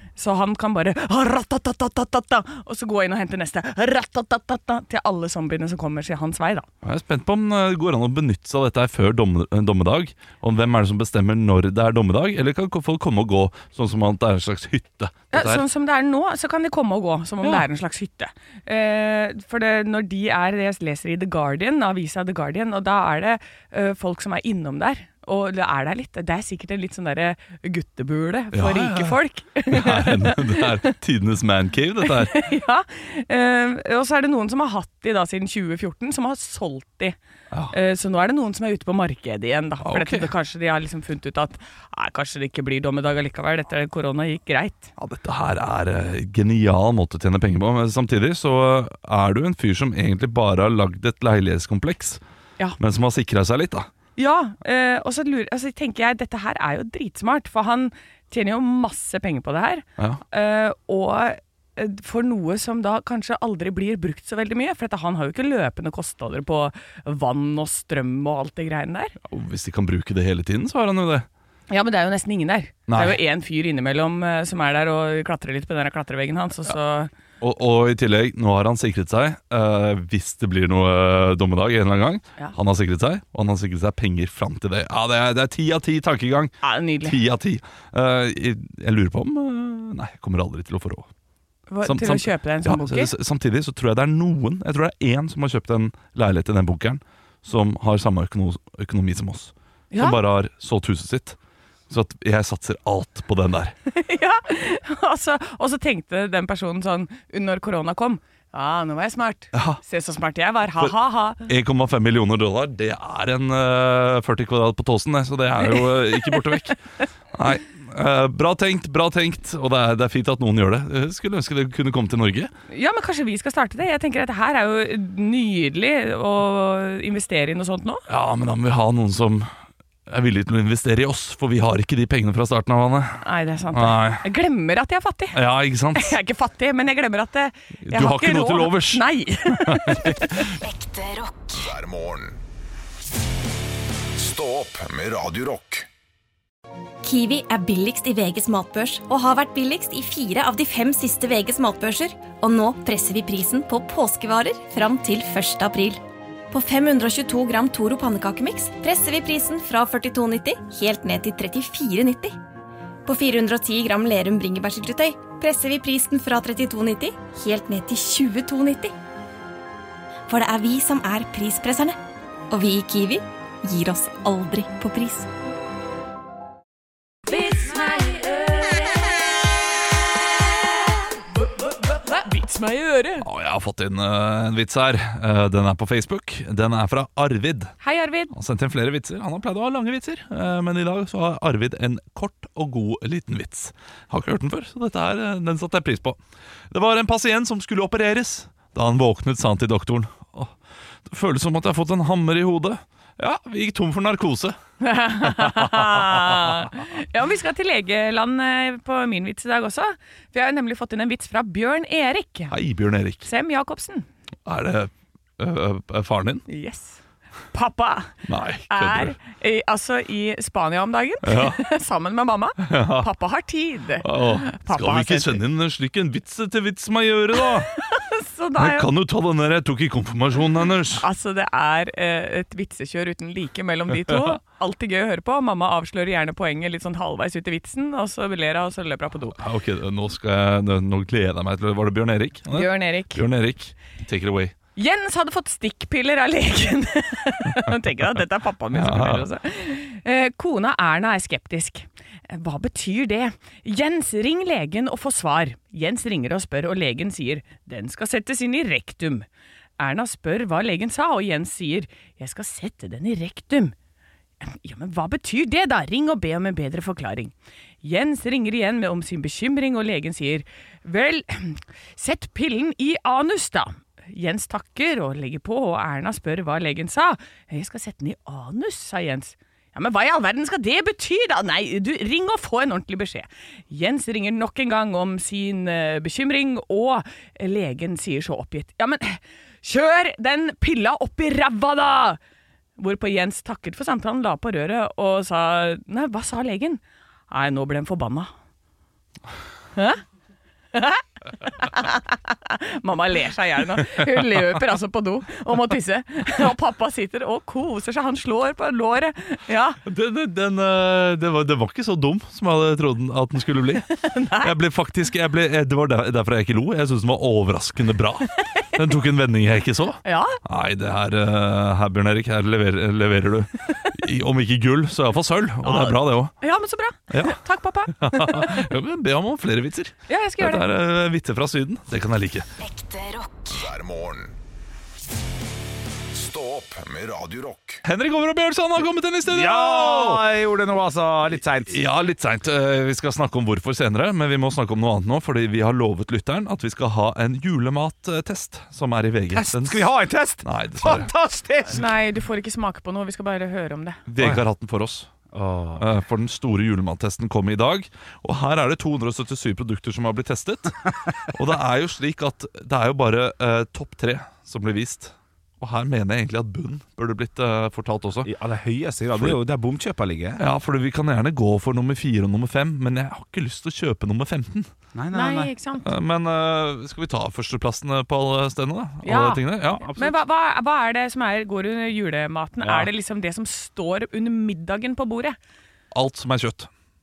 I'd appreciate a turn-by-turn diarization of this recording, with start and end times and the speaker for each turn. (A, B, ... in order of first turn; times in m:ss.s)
0:00.2-0:06.7 A
0:06.8-0:15.6 B
0:15.3-0:30.8 A
0:28.5-0:32.5 B
0:32.0-0:37.2 A
0:37.7-0:44.9 A
0:39.8-0:40.3 B
0:45.0-0:52.2 B
0:52.8-0:53.9 B
0:54.2-1:09.2 A
1:09.2-1:11.3 B
1:11.7-1:17.1 A
1:12.9-1:13.2 B
1:17.4-1:31.1 B
1:26.6-1:27.2 A
1:31.7-1:33.1 A
1:31.8-1:41.4 B
1:39.9-1:40.2 A
1:41.9-1:43.8 B
1:43.9-1:51.4 A
1:49.5-1:49.8 B
1:50.8-1:56.8 B
1:55.6-1:56.7 A
1:57.3-2:02.5 B
2:02.7-2:08.0 A
2:08.1-2:09.5 B
2:10.1-2:14.2 B
2:13.2-2:15.4 A
2:15.3-2:16.2 B
2:16.0-2:20.4 A
2:17.8-2:20.6 B
2:20.6-2:21.8 C
2:21.6-2:22.4 D
2:24.2-2:25.9 D
2:27.0-2:42.4 E
2:43.1-2:48.9 E
2:50.3-2:52.0 E
2:52.5-2:55.3 E
2:57.3-2:59.1 A
3:01.6-3:03.3 A
3:03.2-3:07.8 B
3:07.8-3:08.3 A
3:08.3-3:16.2 B
3:16.7-3:20.5 B
3:21.1-3:24.6 B
3:24.8-3:32.5 A
3:25.4-3:25.8 B
3:32.5-3:33.3 B
3:33.2-3:34.1 A
3:34.5-3:36.4 B
3:36.5-3:37.0 A
3:37.5-3:38.2 A
3:38.3-3:39.2 B
3:38.7-3:45.4 A
3:41.2-3:41.6 B
3:42.6-3:43.1 B
3:44.0-3:47.8 B
3:47.4-3:48.9 A
3:48.6-3:51.0 B
3:51.0-3:59.4 A
3:53.9-3:54.4 B
3:59.4-4:04.5 B
4:02.5-4:03.2 A
4:04.8-4:19.3 A
4:08.7-4:09.3 B
4:19.8-4:23.7 A
4:24.4-4:52.2 A
4:52.8-4:58.3 A
4:59.8-5:00.0 A
5:00.7-5:09.8 A
5:09.8-5:26.3 B
5:14.0-5:14.5 A
5:20.0-5:20.4 A
5:25.6-5:28.6 A
5:27.1-5:32.5 B
5:30.1-5:30.7 A
5:32.6-5:33.7 C
5:33.5-5:34.4 D
5:36.1-5:37.8 D
5:37.8-5:40.3 B
5:39.3-5:41.8 F
5:41.7-5:49.9 B
5:49.3-5:51.9 F
5:50.4-5:51.1 B
5:51.7-5:54.0 A
5:54.1-5:55.1 B
5:54.2-5:54.4 F
5:55.3-5:55.9 F
5:55.8-6:08.3 B
6:08.2-6:10.4 F
6:10.4-6:14.7 B
6:15.0-6:15.5 F
6:15.1-6:15.9 A
6:15.8-6:19.9 B
6:19.0-6:25.4 A
6:19.8-6:20.2 F
6:22.6-6:22.9 F
6:25.9-6:26.7 B